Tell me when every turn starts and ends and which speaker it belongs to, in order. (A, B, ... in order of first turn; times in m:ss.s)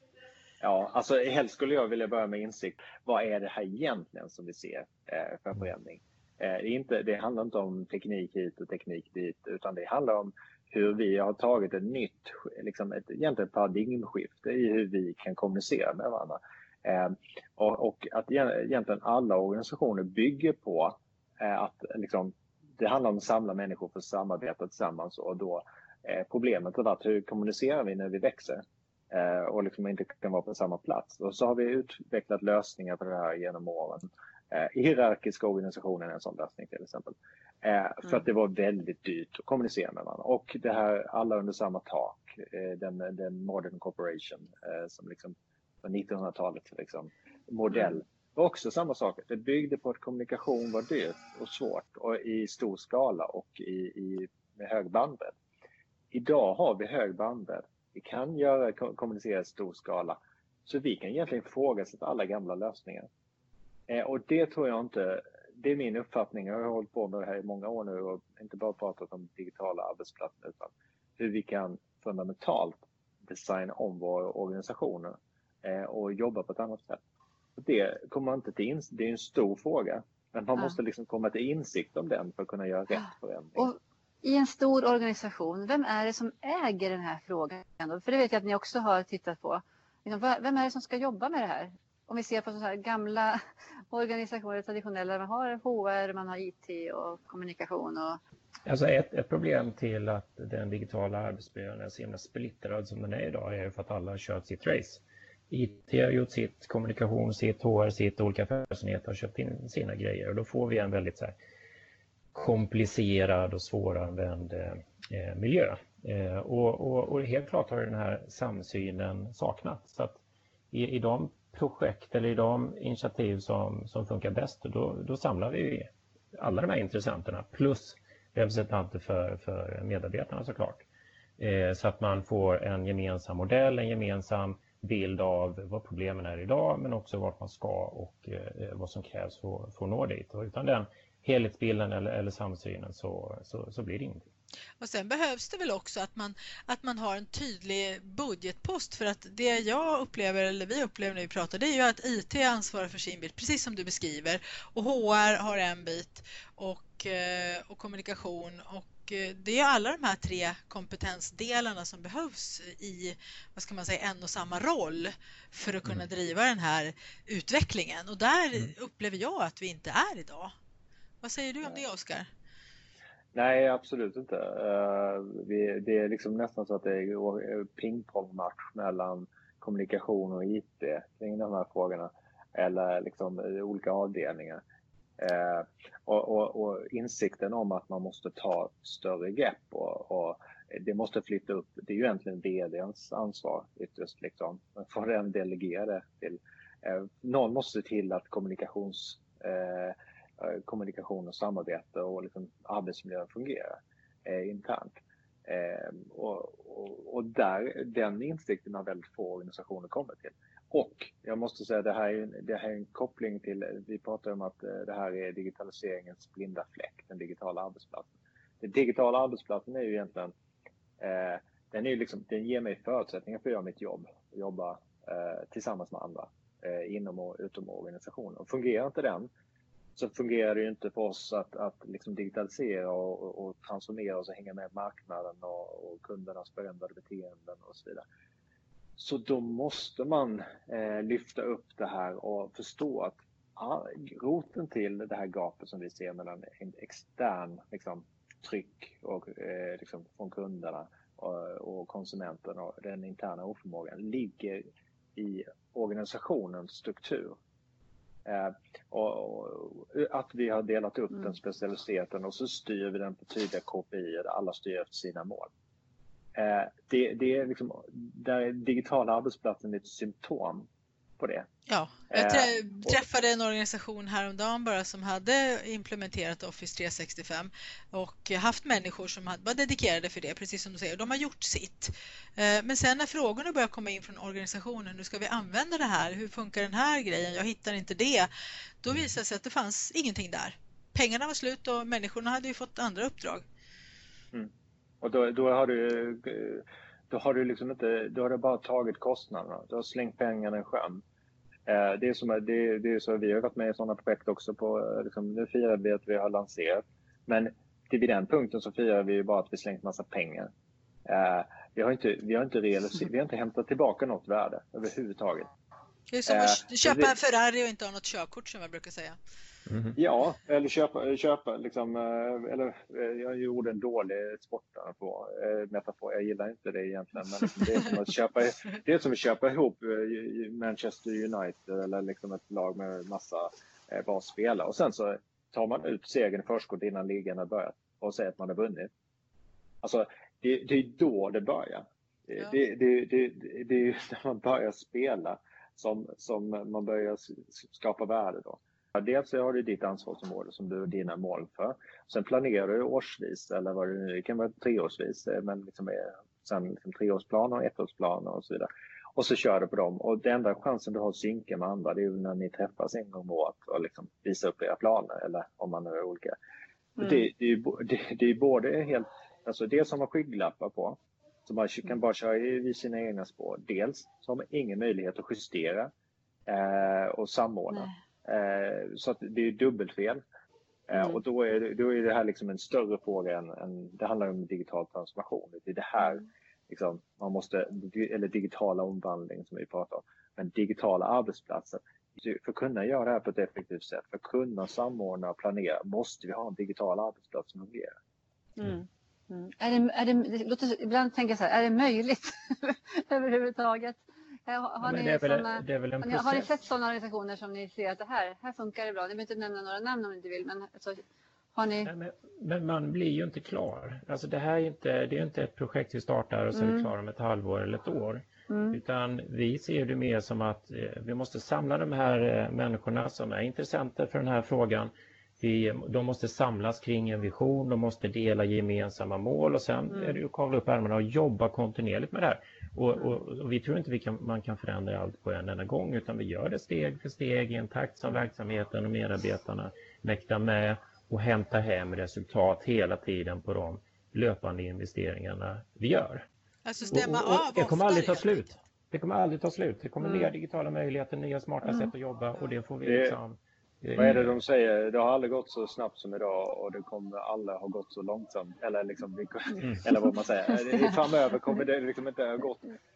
0:00.6-0:55.4 A
0:56.1-1:03.1 A
1:03.9-1:17.0 A
1:17.6-1:23.7 A
1:23.6-1:33.4 B
1:33.9-1:38.2 B
1:38.7-1:51.4 C
1:52.3-2:00.2 C
2:00.7-2:10.8 C
2:11.4-2:24.3 C
2:24.8-2:50.5 D
2:51.2-2:52.3 D
2:53.3-3:04.6 A
3:05.2-3:38.1 A
3:38.6-3:40.3 A
3:41.0-3:49.3 A
3:50.0-3:58.0 A
3:59.0-4:14.6 A
4:15.2-4:17.4 A
4:18.3-4:25.5 A
4:26.4-4:30.7 A
4:31.2-4:31.5 A
4:31.7-4:48.3 D
4:32.1-4:33.0 A
4:48.8-4:53.4 D
4:54.3-5:01.0 A
5:01.7-5:10.5 A
5:11.1-5:15.5 A
5:16.1-5:19.2 D
5:16.3-5:17.1 A
5:19.7-5:20.0 C
5:20.0-5:38.9 A
5:39.8-6:06.4 A
6:07.0-6:15.9 A
6:16.5-6:20.2 A
6:20.9-6:38.0 A
6:38.6-6:51.0 B
6:44.8-6:46.5 C
6:51.5-6:51.9 B
6:51.8-7:26.3 C
6:56.5-6:56.9 B
6:58.5-6:58.8 B
7:09.9-7:10.2 B
7:26.6-7:28.5 D
7:26.9-7:34.4 C
7:30.0-7:30.3 B
7:32.8-7:33.2 A
7:34.0-7:42.8 A
7:40.1-7:40.9 B